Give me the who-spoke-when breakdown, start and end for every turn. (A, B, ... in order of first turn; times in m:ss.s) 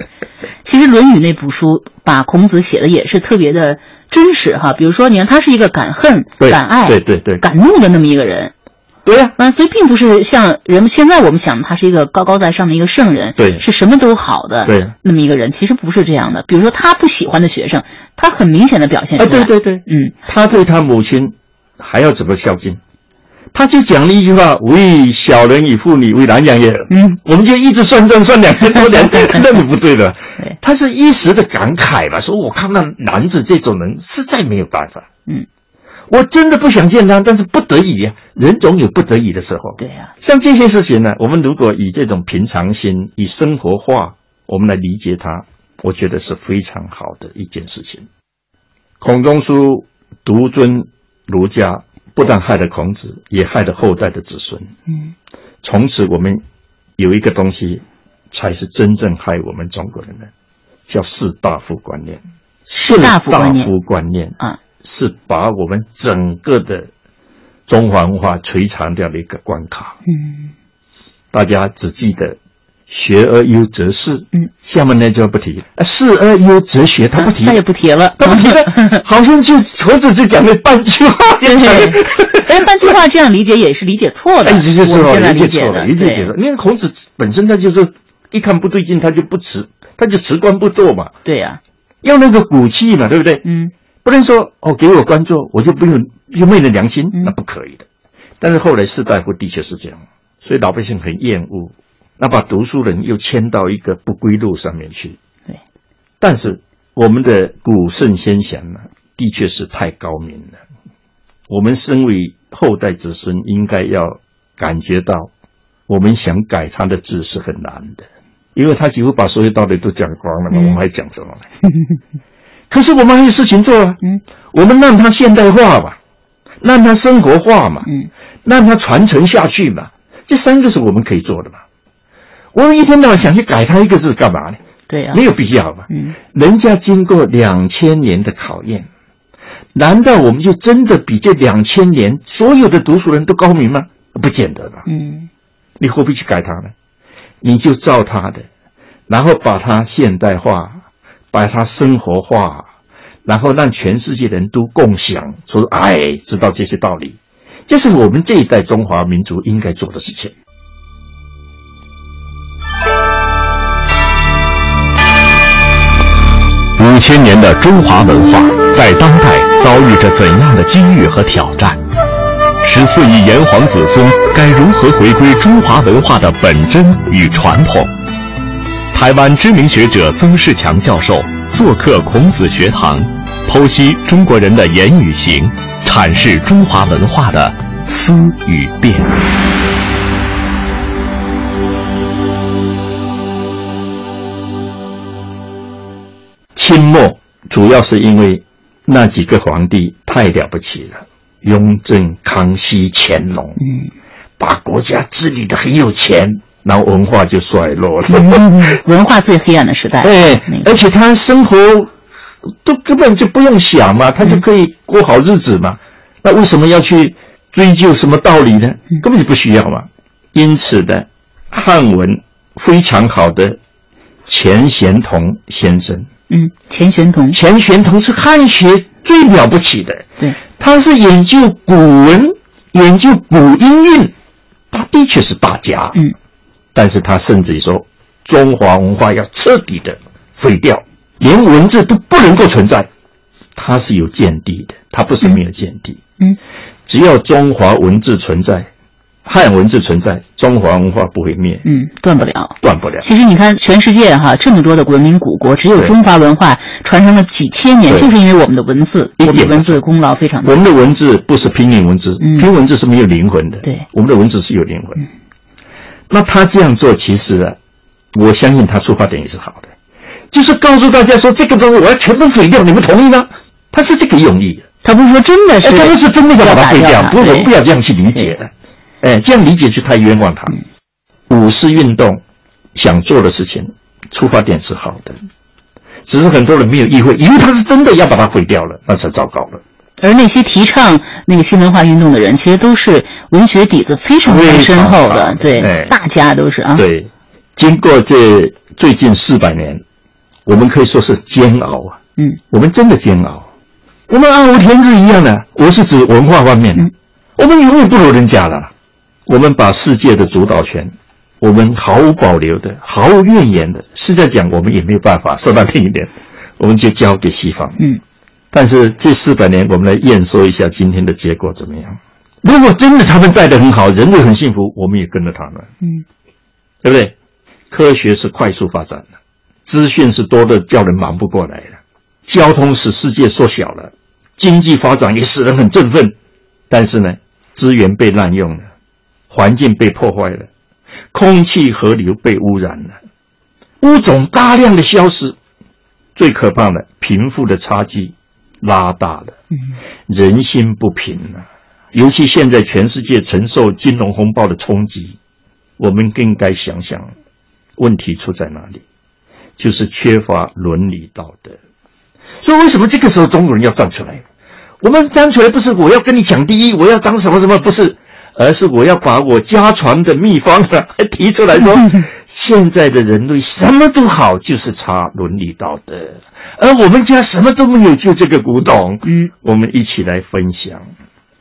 0:00.6-0:08.5 A
0:06.4-0:07.5 B
0:09.0-0:09.4 B
0:09.4-0:20.2 A
0:13.4-0:13.6 B
0:14.6-0:14.9 B
0:19.2-0:22.8 B
0:23.5-0:35.1 B
0:26.9-0:27.2 A
0:36.1-0:48.0 B
0:39.8-0:40.1 A
0:49.0-0:54.7 B
0:55.6-0:56.4 B
0:57.0-1:00.3 B
1:00.9-1:06.9 B
1:02.7-1:03.7 A
1:07.7-1:10.0 B
1:10.1-1:10.5 A
1:11.3-1:12.4 B
1:12.9-1:17.6 B
1:17.2-1:19.0 A
1:18.2-1:22.9 B
1:21.4-1:26.3 A
1:24.4-1:31.1 B
1:31.2-1:31.6 A
1:32.0-1:33.4 B
1:33.4-1:33.7 A
1:34.0-1:37.8 B
1:38.4-1:45.2 B
1:46.2-1:50.6 B
1:51.5-1:55.3 B
1:55.9-1:58.0 B
1:58.6-2:01.5 B
2:02.7-2:04.0 B
2:04.5-2:06.0 B
2:06.6-2:07.9 B
2:07.8-2:08.1 A
2:08.4-2:11.6 B
2:12.5-2:14.6 B
2:14.9-2:15.2 A
2:15.1-2:18.9 B
2:15.9-2:16.2 A
2:19.8-2:24.9 B
2:24.9-2:25.3 A
2:25.8-2:26.7 B
2:27.4-2:28.4 B
2:29.1-2:30.8 B
2:31.3-2:32.7 B
2:33.2-2:40.3 B
2:46.8-2:51.8 C
2:52.6-2:57.9 C
2:58.9-3:09.2 C
3:16.6-3:23.6 B
3:23.6-3:23.9 A
3:24.4-3:28.8 B
3:28.1-3:30.7 A
3:30.0-3:31.9 B
3:32.6-3:43.6 B
3:44.3-3:46.1 B
3:46.3-3:47.4 A
3:47.3-3:50.0 B
3:50.6-3:54.1 B
3:54.7-3:56.0 B
3:56.7-4:02.9 B
4:03.6-4:06.0 B
4:06.9-4:08.7 B
4:09.2-4:11.7 B
4:11.6-4:20.6 A
4:12.6-4:13.1 B
4:19.2-4:19.8 B
4:20.4-4:25.0 B
4:22.2-4:22.5 A
4:26.1-4:27.6 B
4:28.1-4:29.7 B
4:30.3-4:34.7 B
4:34.8-4:37.5 A
4:35.6-4:40.6 B
4:41.3-4:42.2 B
4:42.8-4:45.2 B
4:46.1-4:49.6 B
4:50.0-4:56.8 A
4:54.2-4:56.0 B
4:56.8-4:59.8 B
5:00.5-5:02.0 B
5:02.5-5:03.5 B
5:04.1-5:08.7 B
5:09.3-5:17.8 B
5:18.5-5:25.7 B
5:26.8-5:27.1 B
5:27.7-5:29.1 B
5:29.7-5:36.1 B
5:36.7-5:38.7 B
5:39.3-5:40.5 B
5:41.1-5:43.0 B
5:43.8-5:45.4 B
5:46.2-5:49.4 B
5:50.1-5:55.2 B
5:55.8-5:57.1 B
5:57.8-5:58.8 B
5:59.6-6:01.6 B
6:02.4-6:04.2 B
6:04.8-6:20.9 B